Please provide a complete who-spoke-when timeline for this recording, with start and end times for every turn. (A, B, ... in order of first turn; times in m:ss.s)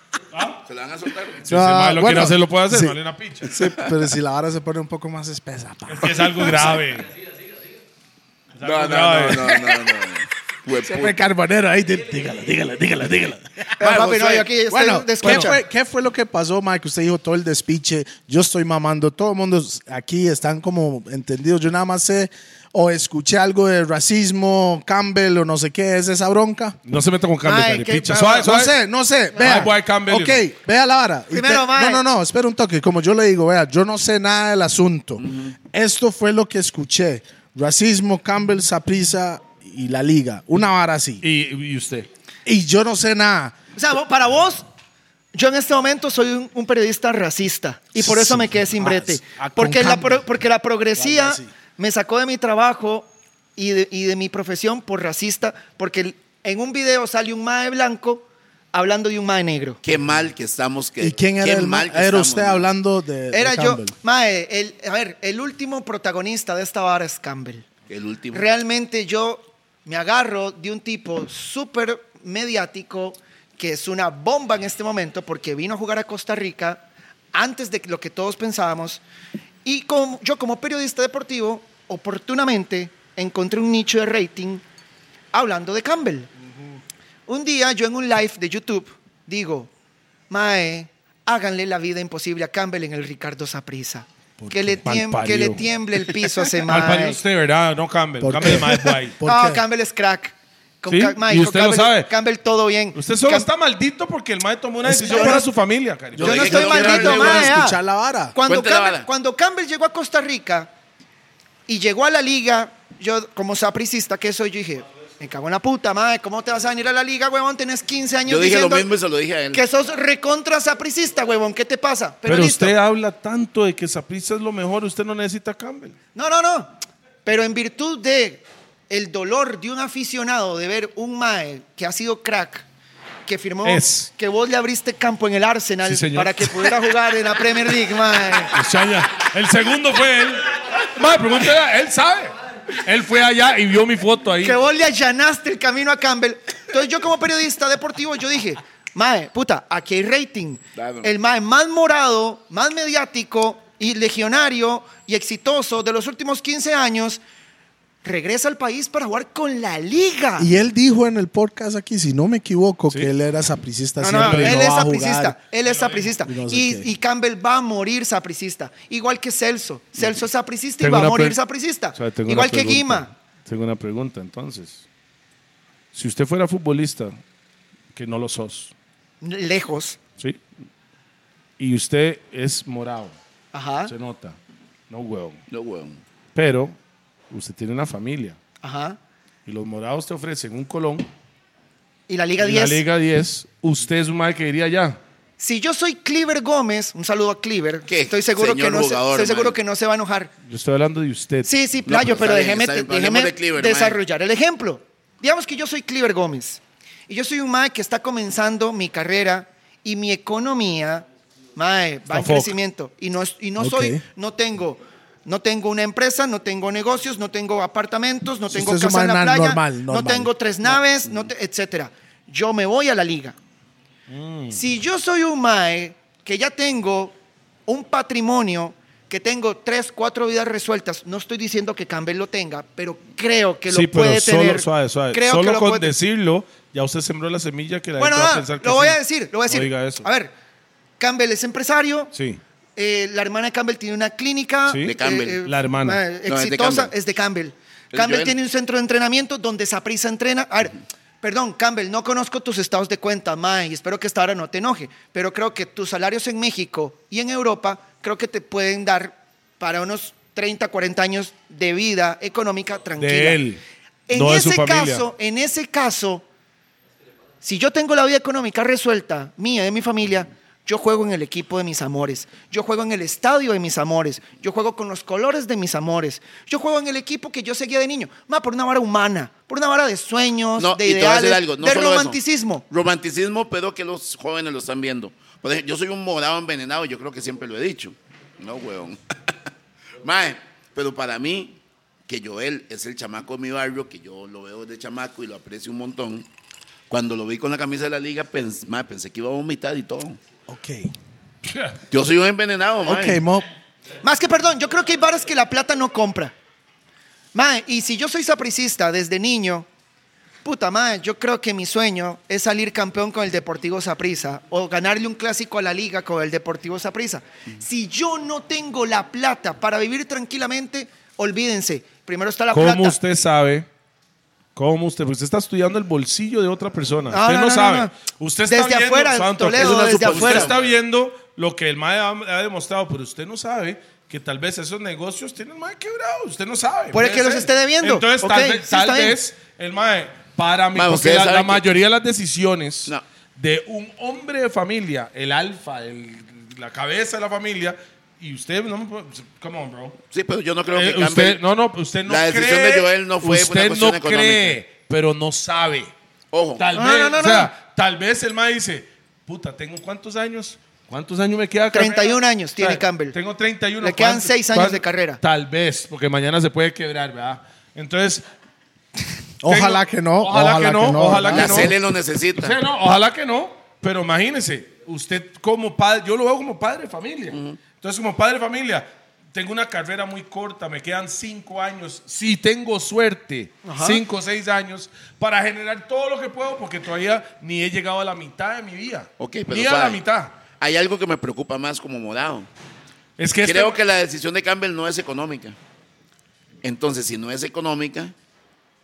0:00.3-0:00.6 A
0:00.6-0:01.5 B
0:01.5-0:03.5 A
0:01.5-0:06.8 C
0:03.5-0:04.0 B
0:05.9-0:07.1 A
0:08.6-0:09.5 A
0:08.6-0:11.2 B
0:09.5-0:10.0 C
0:10.8-0:13.8 C
0:13.8-0:15.6 D
0:13.8-0:14.5 B
0:14.7-0:26.8 C
0:15.2-0:15.5 A
0:26.8-0:28.7 A
0:27.4-0:28.3 D
0:28.1-0:41.2 C
0:29.4-0:30.4 A
0:31.3-0:32.0 D
0:35.2-0:35.5 B
0:41.2-0:42.1 A
0:42.4-0:43.5 C
0:43.8-0:44.6 D
0:45.3-0:59.8 D
0:48.0-0:50.2 C
0:51.0-0:51.5 C
0:59.8-1:02.6 B
1:01.0-1:03.9 C
1:03.3-1:07.6 D
1:07.9-1:08.4 B
1:08.3-1:19.0 D
1:19.6-1:24.6 D
1:25.3-1:26.3 D
1:27.3-1:29.7 D
1:30.3-1:37.2 D
1:34.4-1:34.8 C
1:34.8-1:35.6 A
1:36.6-1:39.2 A
1:38.2-1:39.6 C
1:39.2-1:43.5 D
1:40.9-1:42.1 A
1:42.9-1:46.7 A
1:44.8-1:45.4 C
1:45.0-1:45.4 D
1:46.2-1:48.4 C
1:46.2-1:47.6 B
1:46.2-1:47.8 D
1:48.3-1:50.7 D
1:48.5-1:49.1 B
1:51.7-1:58.9 D
1:58.3-1:59.6 B
1:59.5-2:02.7 D
2:02.2-2:06.0 A
2:06.1-2:12.6 D
2:13.2-2:18.5 D
2:13.6-2:14.1 A
2:15.8-2:16.8 A
2:18.5-2:24.6 A
2:24.4-2:37.2 D
2:30.8-2:31.1 B
2:38.0-2:40.5 D
2:40.4-2:45.4 C
2:44.0-2:53.1 D
2:44.1-2:44.6 A
2:45.6-2:46.2 A
2:46.2-2:46.9 C
2:50.8-2:51.4 A
2:51.9-2:54.8 A
2:55.9-2:57.2 A
2:57.9-2:58.7 A
2:59.2-3:00.0 D
3:01.6-3:03.1 A
3:03.5-3:03.9 D
3:03.9-3:04.4 A
3:04.9-3:05.4 A
3:05.5-3:06.0 B
3:06.3-3:06.7 A
3:07.3-3:08.4 A
3:08.6-3:09.0 D
3:09.4-3:11.1 A
3:12.1-3:12.8 D
3:12.4-3:15.0 A
3:15.4-3:20.3 D
3:17.9-3:19.6 B
3:20.4-3:21.5 A
3:21.4-3:43.4 D
3:21.8-3:24.0 B
3:32.1-3:32.5 A
3:33.6-3:34.0 C
3:38.5-3:40.8 C
3:44.1-3:44.6 A
3:44.5-3:47.2 D
3:47.7-3:55.9 D
3:53.7-4:00.0 A
3:58.0-4:00.3 D
4:01.0-4:02.1 D
4:02.1-4:02.4 A
4:02.8-4:23.4 D
4:04.7-4:06.0 A
4:04.8-4:05.4 B
4:06.2-4:06.9 B
4:07.9-4:08.3 B
4:23.0-4:23.6 A
4:24.1-4:26.2 D
4:24.1-4:25.0 A
4:27.4-4:42.6 D
4:40.6-4:49.0 B
4:50.0-4:56.3 B
4:56.9-5:00.2 B
5:00.5-5:00.9 C
5:01.9-5:03.2 B
5:02.8-5:03.4 C
5:04.0-5:06.3 D
5:07.3-5:09.6 D
5:10.4-5:23.0 D
5:22.5-5:23.7 A
5:24.5-5:50.0 A
5:27.1-5:27.9 D
5:28.5-5:30.5 D
5:29.5-5:30.6 B
5:36.9-5:39.2 D
5:40.7-5:41.6 B
5:50.1-5:51.4 B
5:50.7-5:55.9 A
5:52.0-5:54.6 B
5:56.3-5:56.6 B
5:56.6-6:08.2 A
5:56.7-5:57.5 D
6:01.7-6:03.1 D
6:03.8-6:05.2 D
6:09.4-6:11.7 C
6:09.4-6:11.8 A
6:11.3-6:12.6 B
6:12.4-6:30.4 A
6:17.3-6:17.6 B
6:23.6-6:24.0 D
6:29.2-6:30.0 B
6:30.6-6:32.5 B
6:33.2-6:33.8 A
6:33.4-6:35.6 B
6:36.6-6:38.1 B